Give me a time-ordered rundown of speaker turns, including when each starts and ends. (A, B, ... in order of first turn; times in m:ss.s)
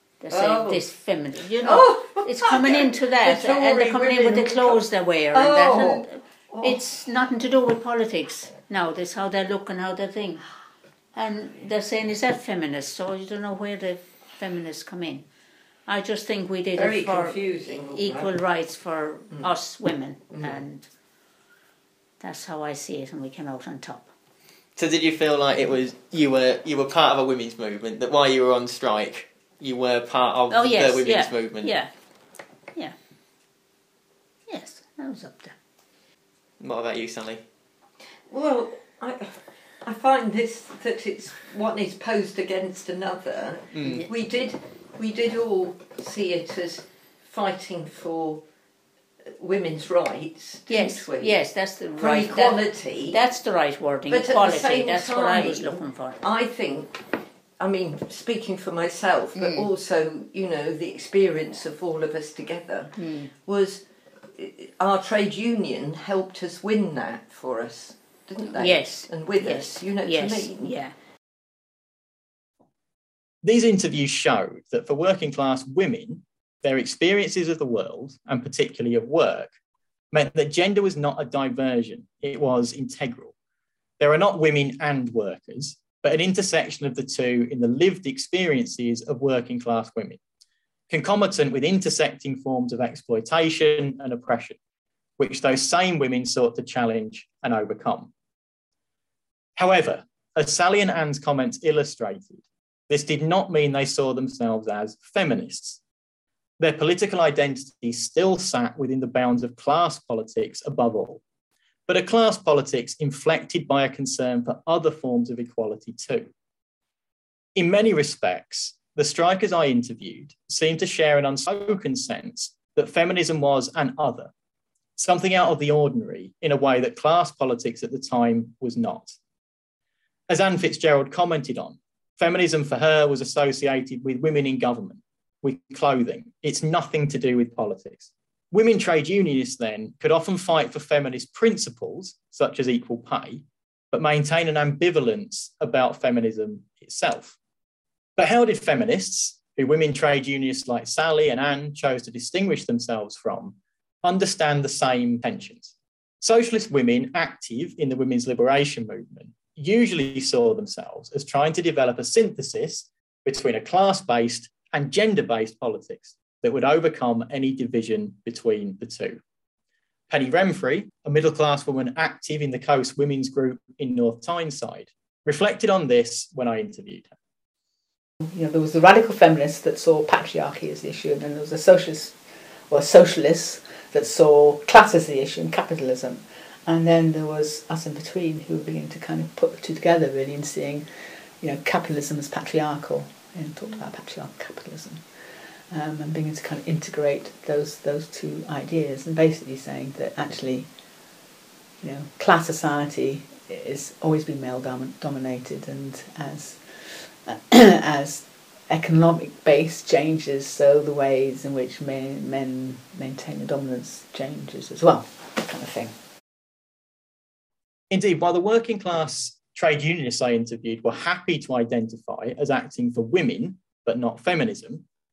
0:00.2-0:10.5 A
0:00.3-0:00.9 B
0:01.5-0:06.8 B
0:11.1-0:15.3 A
0:15.9-0:20.9 A
0:16.8-0:18.3 B
0:20.3-0:20.6 B
0:22.2-0:24.1 A
0:24.8-0:31.8 C
0:30.5-0:31.9 A
0:34.5-0:35.6 A
0:36.6-0:37.4 C
0:38.3-0:48.4 B
0:43.7-0:44.0 C
0:49.4-0:51.4 B
0:50.7-0:56.2 A
0:52.0-0:53.2 B
0:54.1-0:57.1 B
0:57.6-1:10.8 B
0:59.4-0:59.7 A
1:03.0-1:03.3 A
1:08.6-1:10.9 A
1:13.4-1:19.5 D
1:20.1-1:23.3 D
1:24.0-1:30.2 D
1:30.9-1:34.6 D
1:35.2-1:38.1 D
1:39.6-1:45.8 D
1:46.6-1:51.2 D
1:51.9-1:56.3 D
1:57.6-2:04.3 D
2:05.0-2:09.1 D
2:10.3-2:27.4 D
2:28.2-2:49.2 D
2:50.1-2:57.1 D
2:58.2-3:20.7 E
3:21.8-3:36.0 E
3:37.9-3:44.8 D